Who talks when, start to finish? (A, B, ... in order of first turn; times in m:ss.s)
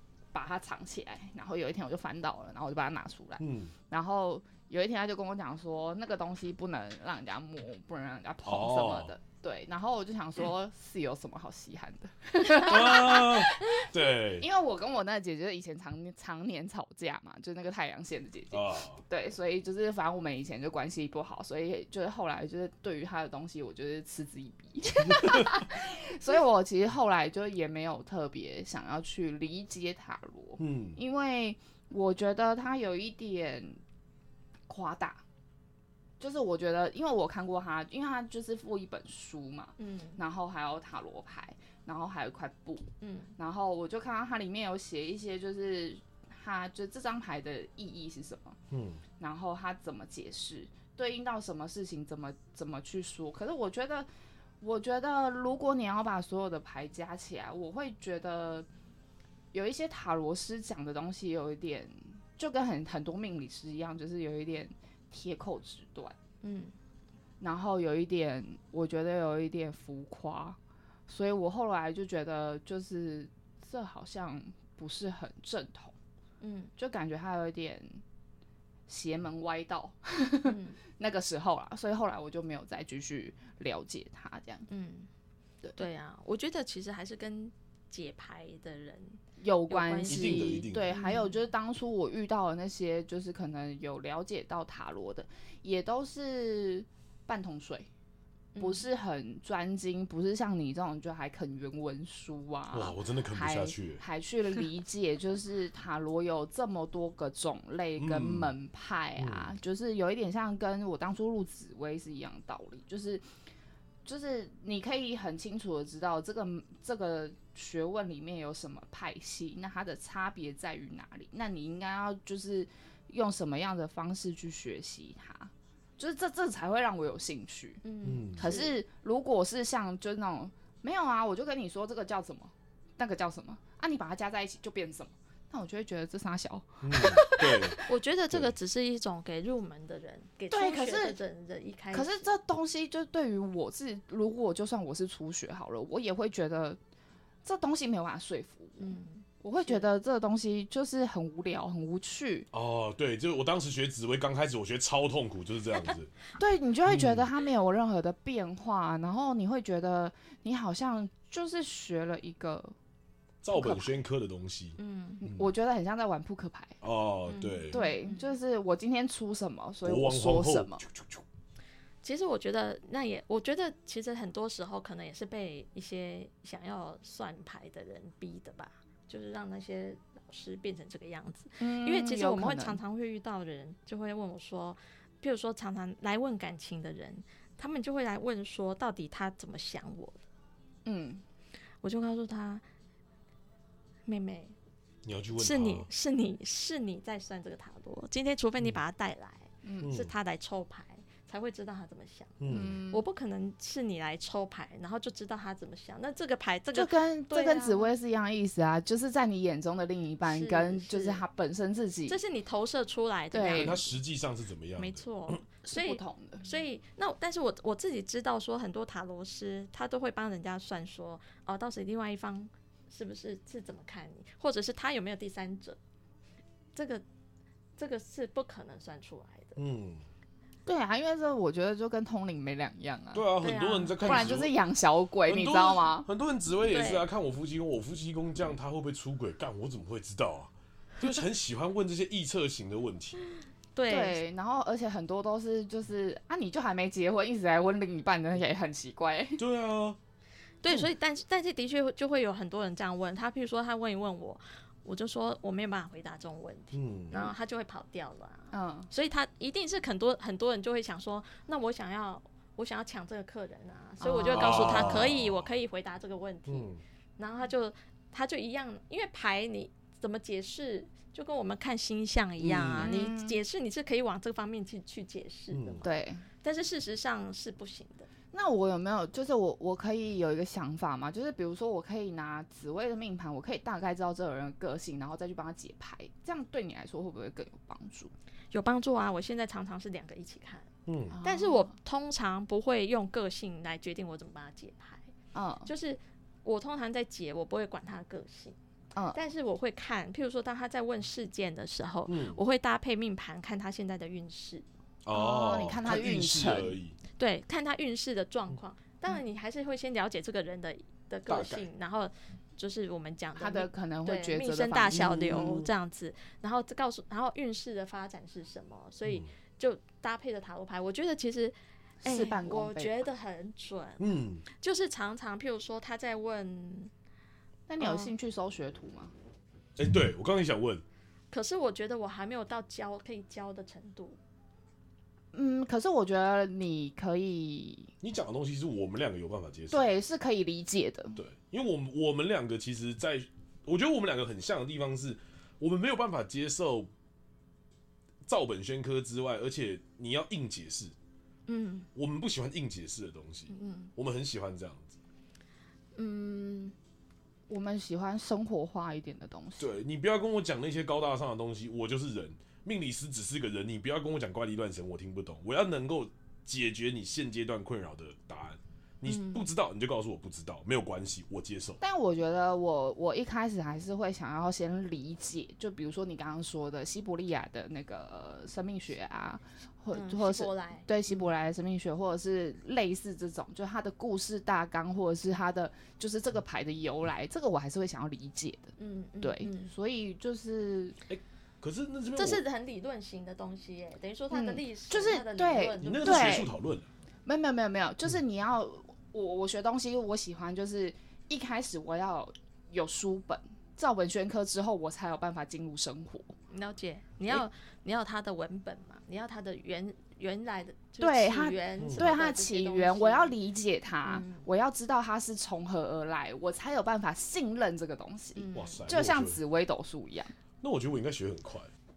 0:00.3-0:33.8 A
0:03.4-0:03.7 B
0:08.4-0:09.2 B
0:12.6-0:14.5 B
0:18.5-0:19.0 B
0:25.0-0:25.6 B
0:30.6-0:31.0 B
0:34.7-0:35.2 A
0:36.2-0:48.6 A
0:39.8-0:40.2 C
0:43.0-0:43.3 C
0:48.7-0:49.0 B
0:49.2-0:54.1 A
0:54.6-0:58.7 A
0:59.5-1:06.2 A
1:06.4-1:06.8 C
1:07.4-1:10.6 A
1:11.1-1:16.0 A
1:16.4-1:16.7 C
1:16.8-1:18.0 A
1:18.9-1:24.7 A
1:20.4-1:20.8 C
1:24.7-1:25.1 C
1:25.8-1:31.4 C
1:29.4-1:37.9 A
1:30.1-1:31.0 B
1:38.6-1:38.9 C
1:38.6-1:53.2 A
1:42.7-1:44.0 B
1:48.0-1:48.5 B
1:49.2-1:49.5 B
1:54.0-2:17.9 A
2:07.8-2:08.7 C
2:08.0-2:08.5 B
2:16.8-2:17.8 B
2:17.0-2:22.3 C
2:20.5-2:21.2 A
2:21.9-2:26.8 A
2:27.4-2:32.5 A
2:28.8-2:29.9 C
2:32.5-2:36.1 B
2:36.4-2:42.8 A
2:36.9-2:37.3 B
2:43.4-2:45.5 B
2:43.5-2:44.0 A
2:44.8-2:45.2 C
2:45.2-2:46.8 A
2:46.8-2:47.8 B
2:47.3-2:48.3 C
2:47.7-2:50.8 A
2:49.8-2:51.2 B
2:52.0-3:10.2 C
3:01.6-3:02.8 A
3:10.8-3:11.2 A
3:11.8-3:12.6 C
3:14.1-3:14.5 C
3:15.0-3:15.9 B
3:15.3-3:27.9 C
3:19.6-3:20.0 A
3:19.8-3:20.1 B
3:22.4-3:22.8 B
3:22.5-3:23.0 A
3:26.7-3:32.2 A
3:30.2-3:31.2 C
3:32.1-3:33.9 C
3:33.3-3:33.8 A
3:33.6-3:35.4 B
3:34.8-3:45.8 C
3:35.6-3:36.4 A
3:46.8-3:47.0 C
3:47.8-3:49.6 C
3:49.6-3:50.1 B
3:50.7-3:53.3 A
3:53.1-3:54.5 B
3:53.4-3:54.0 C
3:54.0-3:56.1 A
3:55.3-4:03.2 B
3:56.7-3:57.0 C
4:03.8-4:04.2 C
4:03.9-4:09.4 A
4:09.4-4:10.0 B
4:10.6-4:35.9 C
4:16.7-4:17.2 B
4:18.5-4:18.9 A
4:24.0-4:25.0 A
4:24.3-4:25.4 B
4:26.5-4:26.8 B
4:32.4-4:33.0 B
4:32.7-4:33.4 A
4:35.5-4:35.8 B
4:35.8-4:36.2 A
4:36.4-4:38.1 C
4:38.3-4:48.1 A
4:48.5-4:50.7 C
4:50.9-4:51.2 B
4:51.1-4:51.7 A
4:51.2-4:55.1 C
4:55.3-4:55.7 A
4:55.7-4:58.6 C
4:59.1-5:04.6 C
5:02.1-5:02.4 B
5:05.0-5:07.0 B
5:05.1-5:06.8 A
5:07.2-5:26.9 C
5:11.3-5:11.7 B
5:13.4-5:15.2 A
5:14.9-5:15.7 B
5:22.0-5:23.0 A
5:24.0-5:24.4 B
5:27.7-5:29.1 A
5:27.8-5:28.1 C
5:29.8-5:30.8 B
5:31.3-5:34.2 C
5:35.3-5:37.9 A
5:38.0-5:39.9 B
5:39.7-5:41.2 A
5:41.2-5:46.9 B
5:48.2-5:51.0 B
5:51.5-5:51.9 C
5:52.0-5:55.0 B
5:53.5-5:53.9 C
5:56.0-5:56.8 C
5:57.5-5:59.8 A
5:59.6-6:11.8 B
6:09.1-6:09.4 C
6:11.8-6:31.0 A
6:19.9-6:20.9 C
6:28.8-6:29.7 C
6:31.1-6:32.4 B
6:32.1-6:36.4 C
6:34.3-6:36.5 A
6:35.8-6:36.9 B
6:37.2-6:46.3 A
6:46.5-6:53.4 C
6:51.0-7:00.3 A
6:51.8-6:52.1 B
6:54.1-6:54.5 C
6:58.4-6:58.9 C
6:58.5-6:59.4 B
7:00.6-7:01.7 B